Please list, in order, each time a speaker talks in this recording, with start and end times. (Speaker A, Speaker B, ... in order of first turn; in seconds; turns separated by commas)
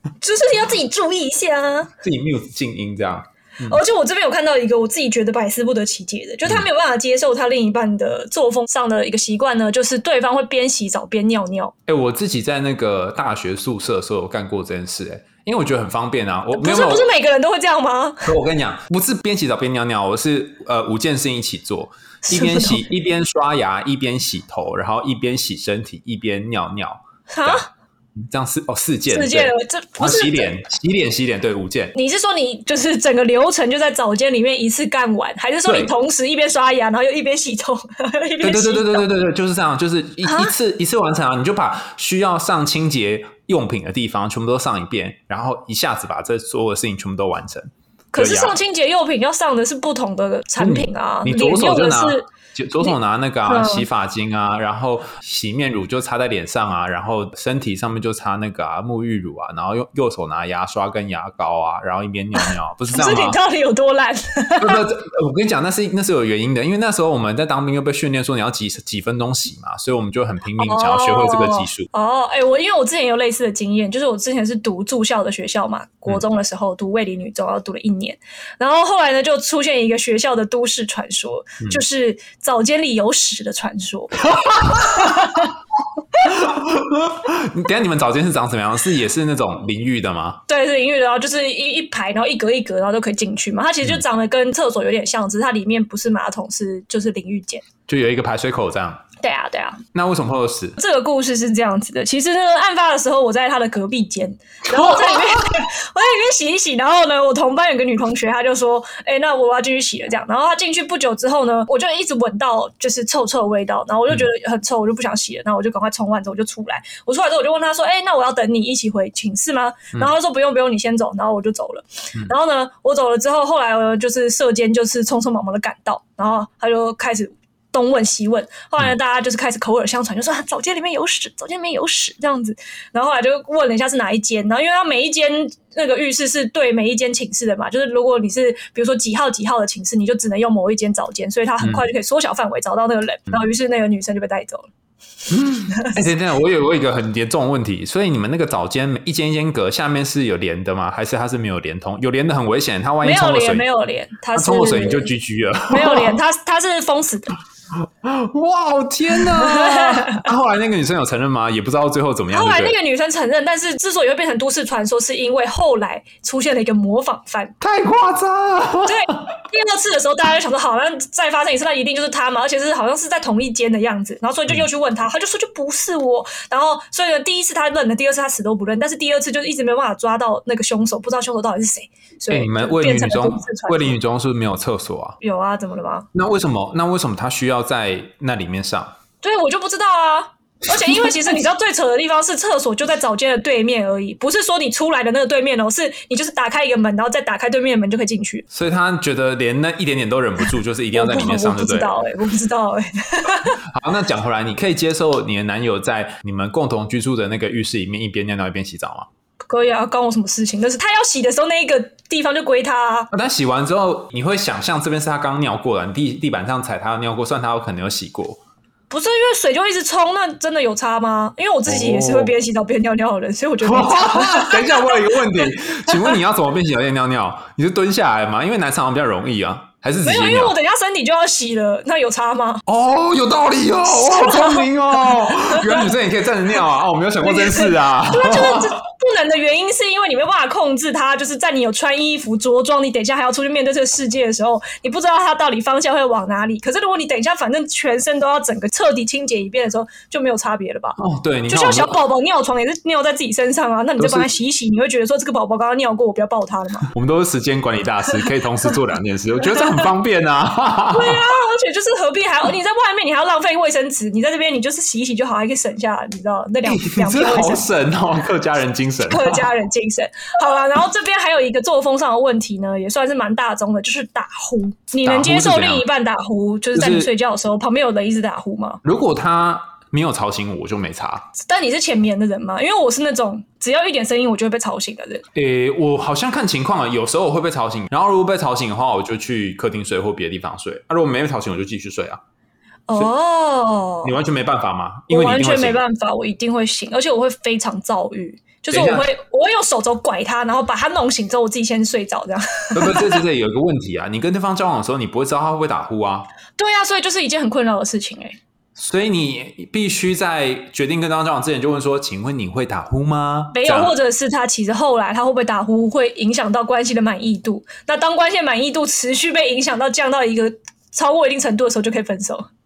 Speaker A: 0.2-1.9, Speaker B: 2.0-3.8, Speaker A: 3.6-11.7, Speaker B: 11.9-17.1, Speaker A: 16.5-18.3, Speaker B: 18.2-31.9, Speaker A: 22.2-22.8, Speaker A: 27.3-27.6, Speaker A: 29.1-30.6, Speaker A: 31.9-39.1, Speaker B: 38.4-48.5, Speaker A: 40.2-40.5, Speaker A: 48.1-52.2, Speaker B: 50.6-63.4, Speaker A: 53.5-53.9, Speaker A: 62.4-64.8, Speaker B: 64.6-71.9, Speaker A: 70.6-85.5, Speaker B: 84.3-85.5, Speaker B: 86.2-90.4, Speaker A: 90.5-97.6, Speaker B: 97.9-99.0, Speaker A: 99.2-99.8, Speaker B: 99.9-100.8, Speaker A: 100.8-144.7, Speaker B: 104.7-105.6, Speaker B: 145.3-153.7, Speaker A: 153.0-155.1, Speaker B: 154.3-156.2, Speaker A: 155.7-157.4, Speaker B: 157.8-162.8, Speaker A: 159.2-160.2, Speaker A: 162.3-167.5, Speaker B: 167.6-169.3, Speaker A: 168.8-183.9, Speaker B: 182.3-185.2, Speaker A: 185.2-186.1, Speaker B: 186.1-188.9, Speaker A: 189.2-198.4, Speaker B: 190.7-191.4, Speaker B: 198.5-201.9, Speaker A: 200.9-203.6, Speaker B: 203.6-209.1, Speaker A: 209.5-213.1, Speaker B: 213.1-218.4, Speaker A: 218.9-226.2, Speaker B: 221.7-222.3, Speaker B: 223.6-230.5, Speaker A: 230.0-232.6, Speaker B: 232.7-238.8, Speaker A: 233.8-235.9, Speaker A: 237.2-251.0, Speaker B: 251.0-252.0, Speaker A: 251.5-256.9, Speaker B: 254.0-254.3, Speaker B: 256.9-261.2, Speaker A: 259.6-259.8, Speaker A: 260.9-267.6, Speaker B: 266.7-269.5, Speaker A: 269.1-278.8, Speaker B: 275.0-275.8, Speaker B: 276.8-277.1, Speaker B: 278.8-281.3, Speaker A: 281.4-285.2, Speaker B: 285.3-292.2, Speaker A: 292.9-294.2, Speaker B: 294.0-295.8, Speaker A: 295.1-303.2, Speaker B: 298.7-299.1, Speaker B: 302.7-306.3, Speaker A: 306.6-308.4, Speaker B: 308.8-313.9, Speaker A: 313.5-322.5